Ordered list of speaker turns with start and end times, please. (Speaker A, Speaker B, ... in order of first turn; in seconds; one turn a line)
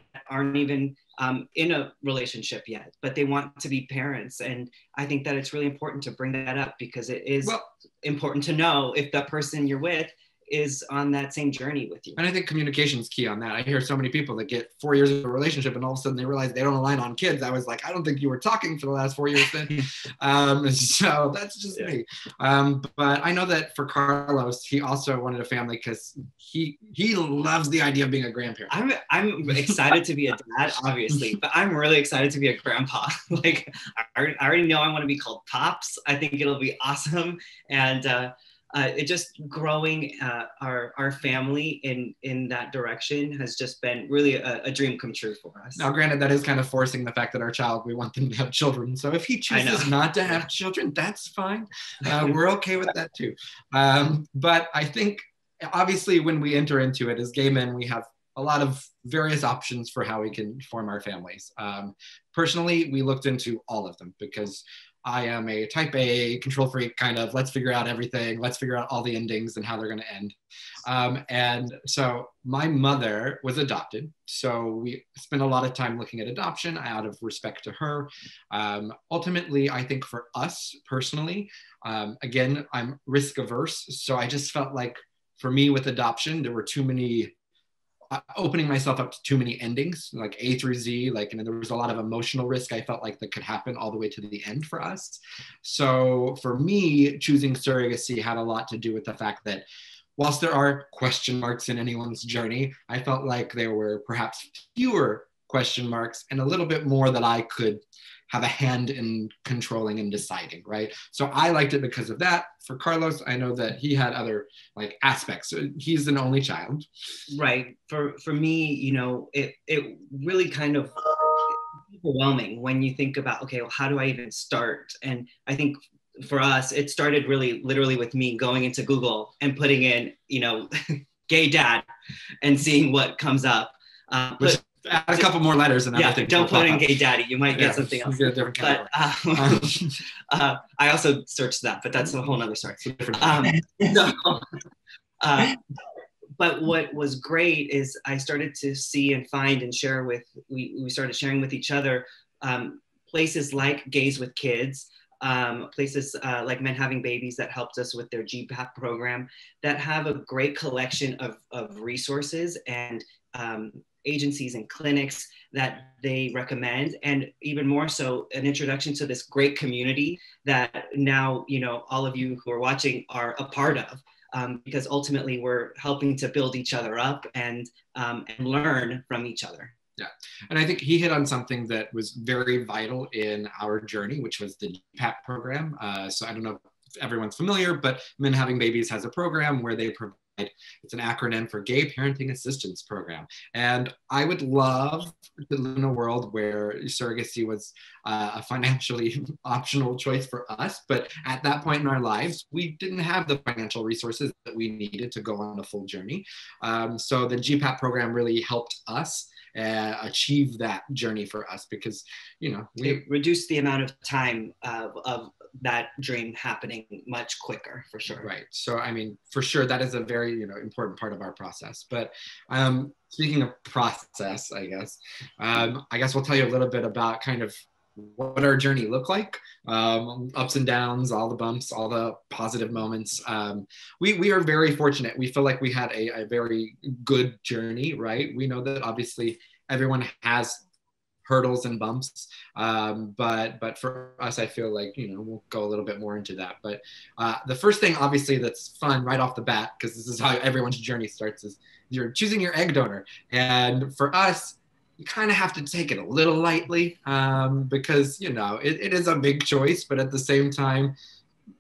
Speaker A: 0.1-12.2
Speaker B: 12.2-28.8
Speaker A: 28.7-45.9
Speaker B: 45.8-87.3
Speaker A: 49.5-49.9
Speaker B: 88.1-99.7
Speaker B: 100.2-116.9
Speaker A: 117.3-131.9
Speaker A: 132.4-135.3
Speaker B: 134.4-136.8
Speaker A: 135.9-144.4
Speaker B: 137.5-139.9
Speaker B: 142.8-143.6
Speaker A: 145.2-145.6
Speaker A: 146.4-179.8
Speaker B: 180.0-213.0
Speaker A: 212.8-218.3
Speaker B: 218.2-240.6
Speaker B: 241.2-260.9